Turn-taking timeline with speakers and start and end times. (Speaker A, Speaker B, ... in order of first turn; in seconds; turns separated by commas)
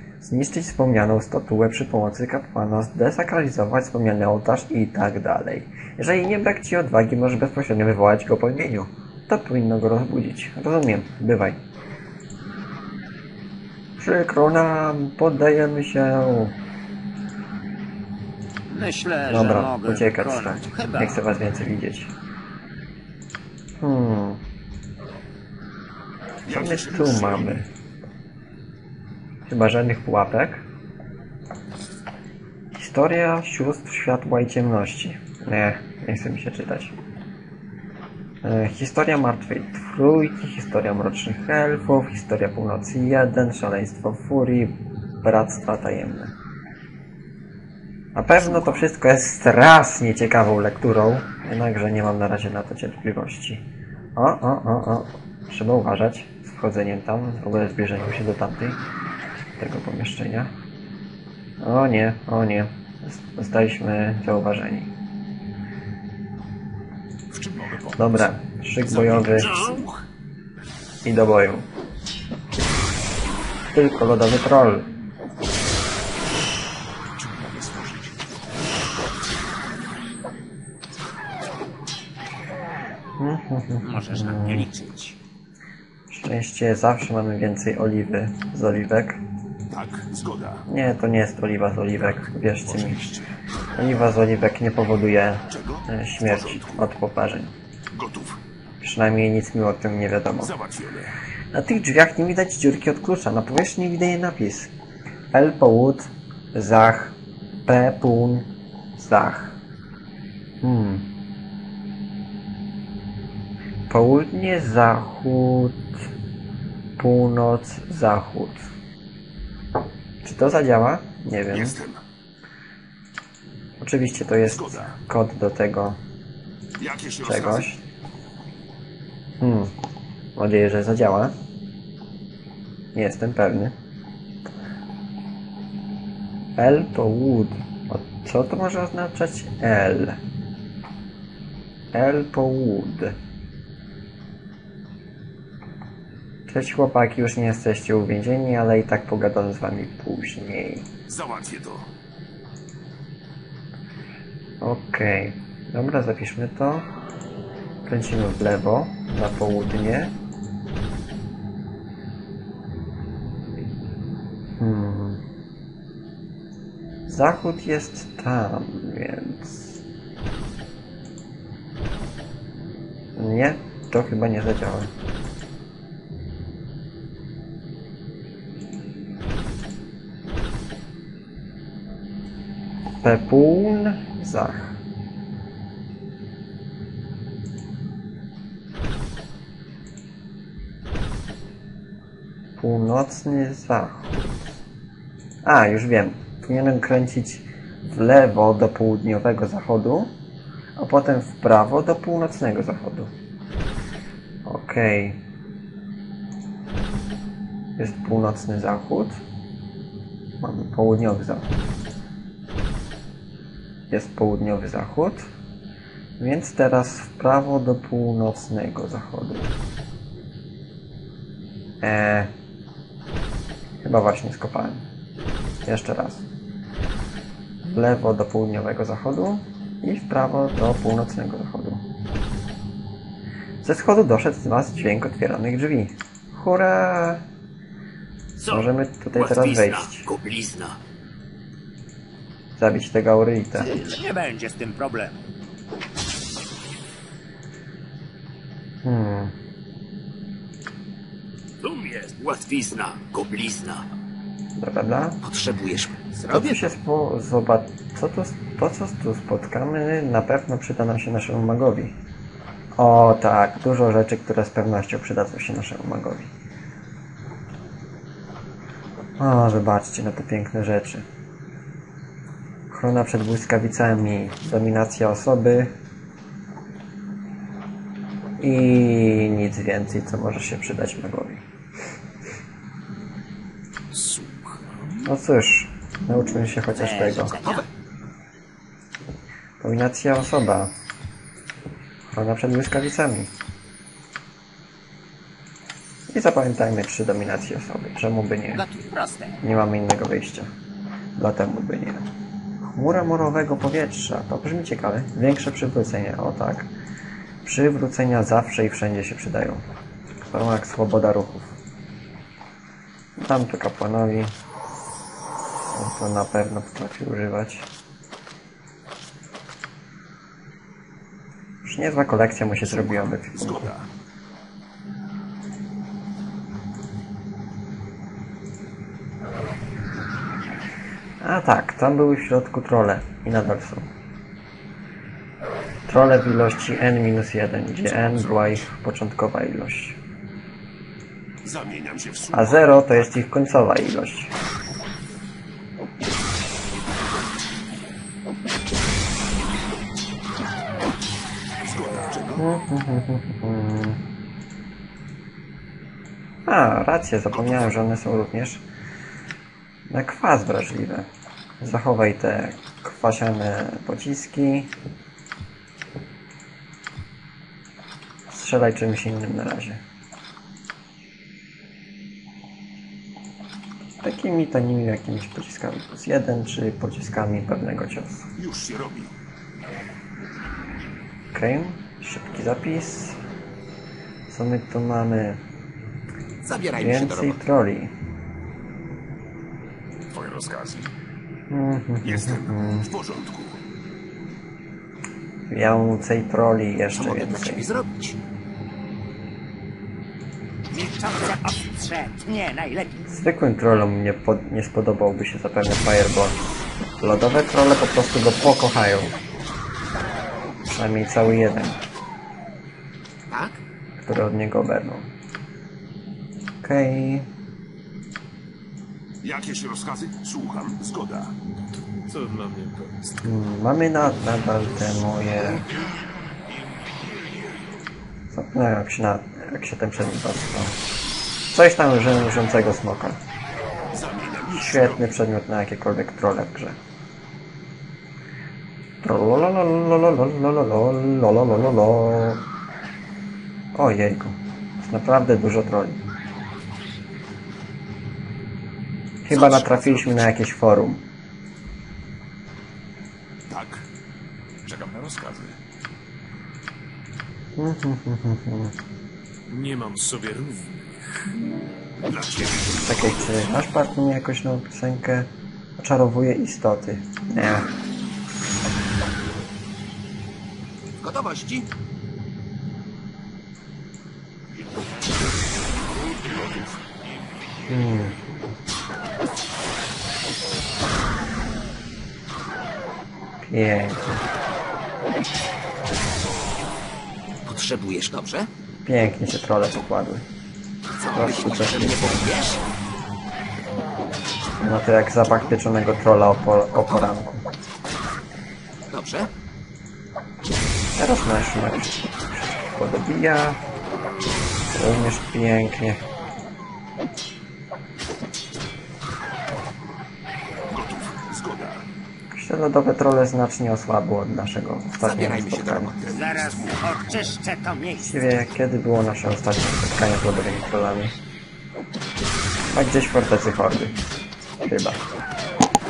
Speaker A: 0.2-11.6, Speaker A: 14.0-16.5, Speaker B: 18.7-21.2, Speaker A: 19.3-22.1, Speaker A: 23.8-24.4, Speaker C: 26.4-27.6, Speaker A: 26.5-27.7, Speaker A: 29.5-30.6, Speaker A: 32.7-36.9, Speaker A: 38.4-46.3, Speaker A: 48.1-53.6, Speaker A: 54.1-58.8, Speaker A: 59.6-60.5, Speaker A: 61.6-64.9, Speaker C: 67.3-68.3, Speaker A: 68.0-69.6, Speaker C: 68.8-70.0, Speaker A: 71.0-71.7, Speaker A: 73.7-74.9, Speaker C: 77.1-78.3, Speaker A: 83.2-84.7, Speaker B: 83.8-85.1, Speaker A: 86.1-89.2, Speaker C: 89.7-90.6, Speaker A: 90.7-93.1, Speaker C: 92.0-93.2, Speaker A: 93.7-97.5, Speaker C: 95.5-96.8, Speaker C: 97.9-98.4, Speaker A: 98.8-100.5, Speaker C: 100.4-101.1, Speaker A: 101.5-104.7, Speaker A: 105.3-109.5, Speaker A: 110.6-111.1, Speaker A: 113.9-115.9, Speaker A: 117.0-118.7, Speaker A: 120.2-121.8, Speaker C: 121.5-122.0, Speaker A: 123.8-126.0, Speaker C: 124.5-124.9, Speaker C: 126.8-127.7, Speaker A: 127.2-127.8, Speaker A: 129.4-129.7, Speaker A: 130.3-131.3, Speaker A: 132.9-133.7, Speaker A: 136.6-140.2, Speaker A: 141.9-143.1, Speaker A: 146.5-150.9, Speaker C: 151.1-151.9, Speaker A: 154.6-156.9, Speaker A: 157.8-160.1, Speaker A: 164.6-165.2, Speaker A: 167.1-169.8, Speaker A: 173.1-174.9, Speaker A: 183.0-184.8, Speaker A: 192.6-194.2, Speaker A: 195.4-200.1, Speaker A: 200.8-203.1, Speaker A: 204.4-205.2, Speaker A: 207.8-209.2, Speaker A: 210.4-211.5, Speaker A: 213.9-215.3, Speaker A: 216.2-219.5, Speaker A: 221.8-222.3, Speaker A: 223.8-224.8, Speaker A: 225.7-226.2, Speaker A: 227.7-231.8, Speaker A: 233.6-237.2, Speaker A: 238.4-240.1, Speaker B: 239.2-240.4, Speaker D: 239.3-239.7, Speaker D: 240.4-240.7, Speaker A: 242.6-243.8, Speaker B: 243.6-245.2, Speaker A: 248.8-249.3, Speaker B: 251.6-253.4, Speaker D: 251.8-253.8, Speaker A: 254.6-255.2, Speaker D: 255.2-256.7, Speaker A: 256.3-261.9, Speaker A: 262.8-266.3, Speaker A: 269.2-271.0, Speaker A: 272.7-275.7, Speaker A: 278.4-281.4, Speaker E: 283.9-285.0, Speaker A: 285.0-287.4, Speaker B: 286.7-287.6, Speaker A: 289.6-290.7, Speaker A: 292.1-293.3, Speaker A: 296.1-298.6, Speaker B: 298.5-299.4, Speaker A: 299.4-300.5, Speaker A: 301.1-302.1, Speaker A: 302.6-306.7, Speaker A: 307.4-309.6, Speaker A: 310.2-311.5, Speaker A: 313.2-314.3, Speaker A: 315.7-317.7, Speaker A: 321.6-323.7, Speaker C: 322.6-323.9, Speaker A: 331.2-333.9, Speaker A: 335.9-340.0, Speaker C: 337.9-338.6, Speaker C: 341.4-343.1, Speaker A: 342.3-344.3, Speaker C: 351.6-352.4, Speaker A: 352.4-354.0, Speaker A: 356.4-358.6, Speaker C: 357.4-357.8, Speaker A: 359.9-361.1, Speaker A: 361.6-364.7, Speaker A: 368.3-369.8, Speaker A: 374.0-378.2, Speaker C: 378.4-379.1, Speaker A: 381.3-383.2, Speaker A: 384.3-385.4, Speaker D: 386.4-387.4, Speaker A: 386.7-387.9, Speaker C: 390.1-390.9, Speaker A: 391.5-392.9, Speaker C: 392.0-393.6, Speaker A: 395.5-397.7, Speaker D: 396.9-398.2, Speaker B: 400.7-403.0, Speaker A: 403.1-406.4, Speaker A: 407.0-409.1, Speaker A: 410.6-411.8, Speaker D: 413.3-413.6, Speaker A: 414.0-415.1, Speaker A: 416.6-417.3, Speaker C: 419.2-421.3, Speaker E: 422.0-423.2, Speaker A: 423.2-425.6, Speaker A: 428.3-430.8, Speaker A: 431.5-433.2, Speaker C: 433.9-435.1, Speaker A: 434.5-436.8, Speaker A: 439.0-442.4, Speaker A: 443.7-446.0, Speaker A: 449.2-451.0, Speaker C: 449.3-450.3, Speaker C: 453.5-453.8, Speaker C: 454.6-455.6, Speaker A: 457.6-458.7, Speaker E: 459.5-461.1, Speaker C: 462.0-463.3, Speaker A: 462.8-467.7, Speaker D: 471.0-471.7, Speaker C: 475.4-477.4, Speaker A: 477.7-478.1, Speaker A: 483.4-484.2, Speaker D: 487.4-488.5, Speaker A: 488.8-490.2, Speaker D: 491.0-492.6, Speaker A: 491.1-492.3, Speaker A: 494.6-497.4, Speaker D: 498.9-499.3, Speaker A: 501.0-503.6, Speaker A: 504.7-506.0, Speaker C: 510.7-511.8, Speaker A: 512.3-515.9, Speaker D: 515.0-516.1, Speaker C: 515.9-517.2, Speaker B: 516.1-518.3, Speaker A: 518.0-521.1, Speaker A: 522.7-523.9, Speaker A: 524.6-525.0